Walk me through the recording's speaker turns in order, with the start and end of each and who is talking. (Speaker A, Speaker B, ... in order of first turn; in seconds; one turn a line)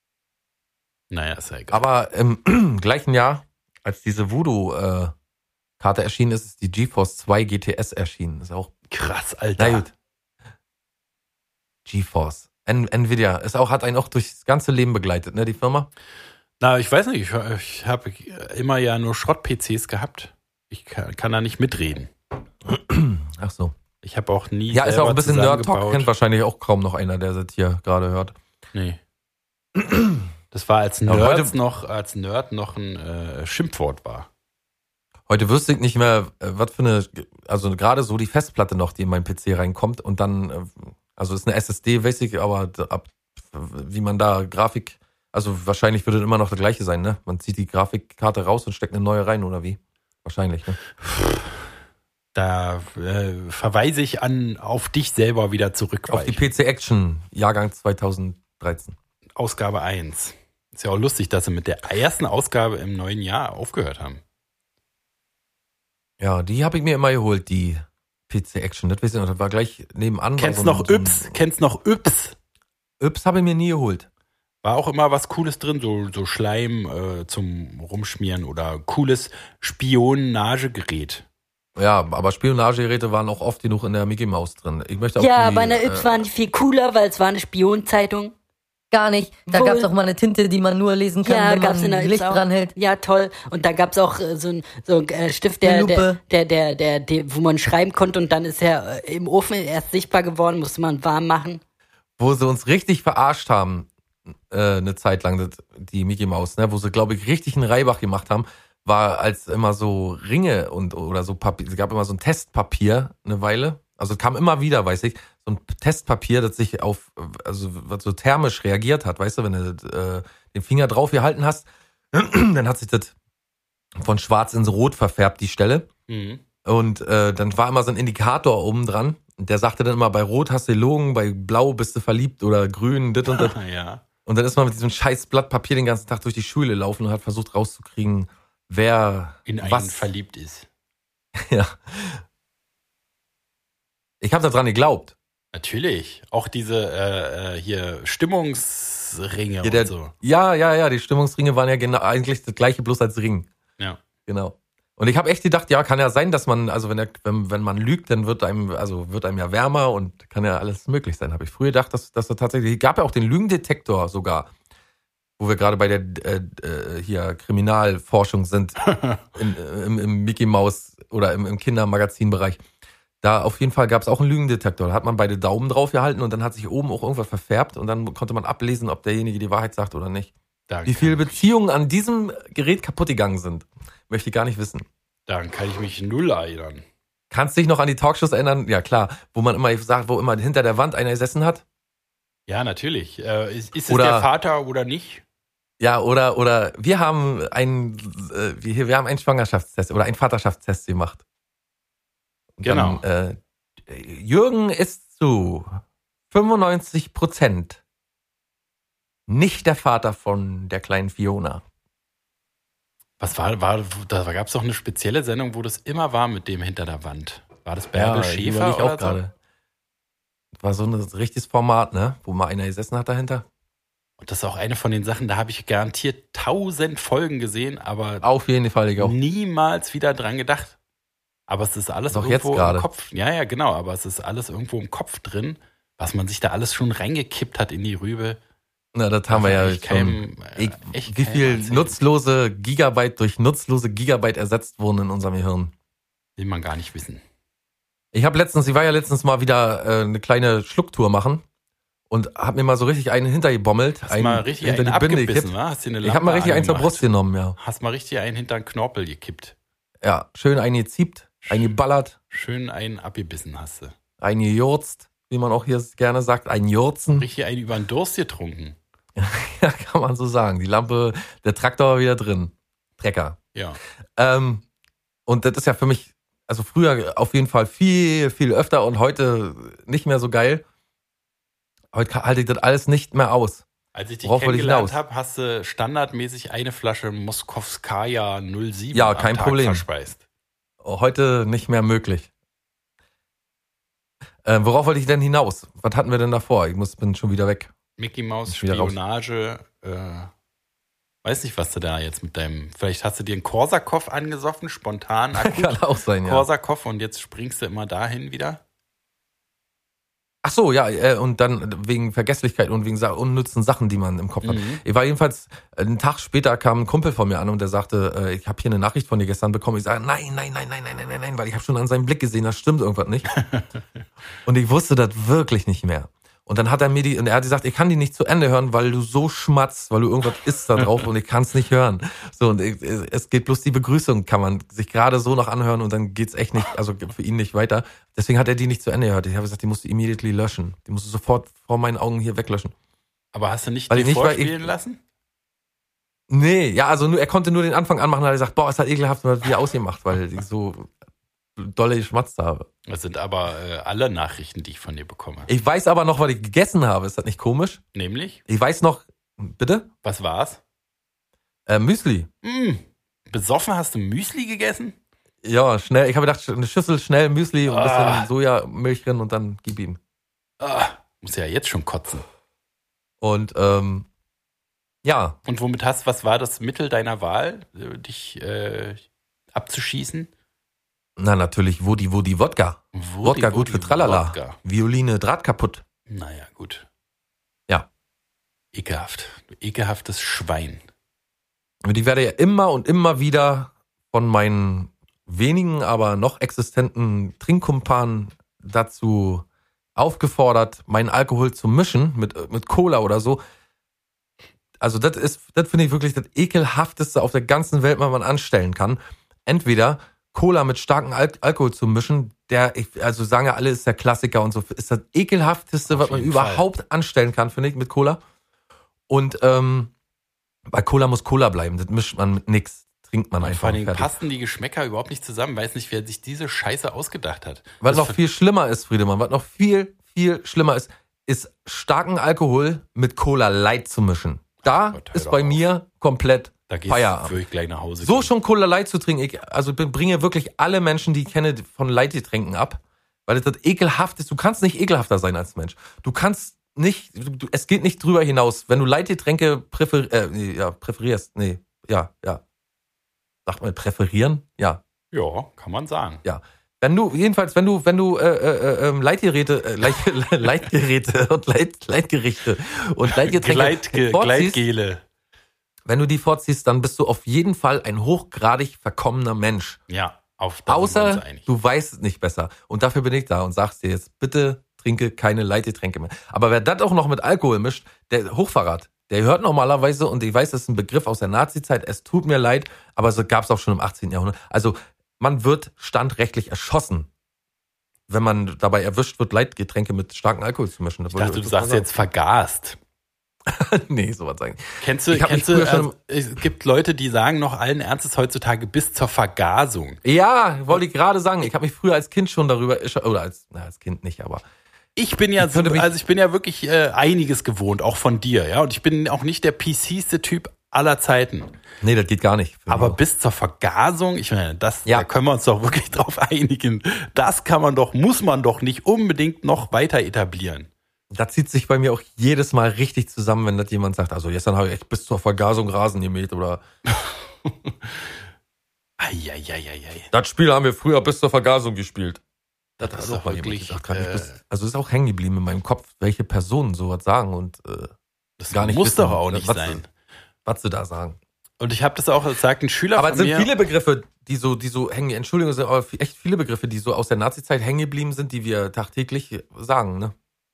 Speaker A: 1.1-1.8
Speaker B: 1.7-5.1
Speaker B: 5.8-8.7
Speaker A: 8.9-9.9
Speaker B: 9.6-9.9
Speaker B: 11.9-15.9
Speaker A: 16.6-22.1
Speaker B: 22.6-23.8
Speaker A: 24.0-26.1
Speaker B: 24.7-28.4
Speaker A: 28.7-29.0
Speaker B: 29.8-30.3
Speaker A: 30.5-34.3
Speaker B: 31.1-31.5
Speaker B: 35.3-50.8
Speaker A: 51.1-51.4
Speaker A: 52.4-56.5
Speaker B: 56.1-59.0
Speaker A: 59.4-64.2
Speaker B: 66.2-71.4
Speaker A: 70.4-72.4
Speaker B: 73.0-74.1
Speaker A: 74.6-81.2
Speaker B: 81.8-86.3
Speaker C: 85.2-88.3
Speaker D: 88.9-92.7
Speaker C: 89.5-89.9
Speaker C: 91.2-101.6
Speaker D: 95.6-96.2
Speaker B: 102.2-103.9
Speaker B: 104.5-123.1
Speaker B: 124.0-125.9
Speaker A: 126.1-126.4
Speaker B: 126.7-133.6
Speaker A: 133.3-134.0
Speaker B: 134.3-140.1
Speaker A: 139.5-140.7
Speaker B: 141.4-142.2
Speaker B: 144.2-145.2
Speaker A: 145.5-150.1
Speaker B: 149.6-153.5
Speaker B: 154.3-164.5
Speaker B: 165.4-172.6
Speaker A: 168.9-169.2
Speaker B: 173.2-180.3
Speaker A: 180.7-181.4
Speaker B: 180.9-184.9
Speaker A: 185.3-186.8
Speaker B: 187.3-191.6
Speaker A: 192.5-195.2
Speaker B: 193.9-194.3
Speaker B: 195.8-201.2
Speaker B: 202.6-205.8
Speaker A: 202.6-203.0
Speaker B: 206.3-207.8
Speaker B: 209.3-211.6
Speaker A: 213.2-219.2
Speaker B: 217.9-219.3
Speaker B: 220.6-223.5
Speaker A: 224.2-228.2
Speaker B: 228.2-229.2
Speaker A: 229.0-230.8
Speaker A: 231.5-238.4
Speaker B: 232.1-232.9
Speaker B: 238.9-245.7
Speaker A: 239.3-242.0
Speaker A: 246.4-247.2
Speaker B: 248.1-251.4
Speaker B: 252.1-257.6
Speaker A: 254.1-257.1
Speaker A: 257.6-259.6
Speaker B: 260.0-262.2
Speaker A: 261.4-261.7
Speaker A: 262.3-263.9
Speaker B: 264.2-267.3
Speaker A: 267.2-268.8
Speaker B: 269.2-273.4
Speaker B: 274.2-274.6
Speaker B: 275.3-280.6
Speaker B: 281.9-283.6
Speaker A: 283.9-290.2
Speaker B: 284.2-285.0
Speaker B: 288.9-289.9
Speaker B: 290.8-292.3
Speaker B: 294.4-297.7
Speaker A: 298.0-300.3
Speaker B: 298.5-299.0
Speaker A: 301.2-308.6
Speaker B: 305.4-306.4
Speaker B: 310.4-323.3
Speaker A: 314.4-314.8
Speaker A: 323.3-323.8
Speaker B: 324.5-342.7
Speaker A: 343.3-345.0
Speaker B: 343.9-344.7
Speaker B: 346.3-350.9
Speaker B: 351.6-352.7
Speaker A: 352.9-355.5
Speaker B: 355.5-357.8
Speaker A: 357.9-358.4
Speaker B: 358.5-359.9
Speaker A: 360.0-360.6
Speaker B: 361.7-362.3
Speaker A: 362.4-365.0
Speaker B: 365.4-370.0
Speaker A: 367.7-368.3
Speaker A: 370.6-372.2
Speaker B: 373.2-374.1
Speaker B: 375.0-375.4
Speaker A: 375.5-379.0
Speaker A: 379.6-380.3
Speaker B: 381.2-385.8
Speaker A: 382.9-384.6
Speaker A: 386.1-386.9
Speaker A: 388.7-390.8
Speaker B: 391.8-399.4
Speaker B: 400.0-403.4
Speaker B: 404.8-418.2
Speaker A: 415.9-416.7
Speaker B: 419.1-419.9
Speaker B: 420.7-424.1
Speaker A: 423.4-428.2
Speaker B: 427.8-437.4
Speaker A: 434.6-435.6
Speaker A: 436.7-438.3
Speaker B: 438.0-452.4
Speaker B: 453.5-454.8
Speaker A: 455.1-456.2
Speaker B: 456.2-464.6
Speaker A: 463.1-465.0
Speaker B: 465.9-469.8
Speaker A: 469.9-471.5
Speaker B: 470.7-487.1
Speaker B: 488.1-491.9
Speaker A: 491.1-492.8
Speaker B: 493.5-495.9
Speaker A: 494.8-500.0
Speaker B: 500.0-504.4
Speaker A: 505.0-511.5
Speaker B: 505.4-505.9
Speaker B: 511.8-513.0
Speaker A: 512.7-520.7
Speaker B: 521.1-526.6
Speaker A: 526.9-528.1
Speaker A: 529.0-530.1
Speaker B: 530.1-532.2
Speaker A: 532.8-534.4
Speaker B: 532.8-537.9
Speaker A: 538.4-539.9
Speaker B: 538.5-539.8
Speaker B: 540.5-541.2
Speaker A: 541.6-543.5
Speaker B: 543.0-550.1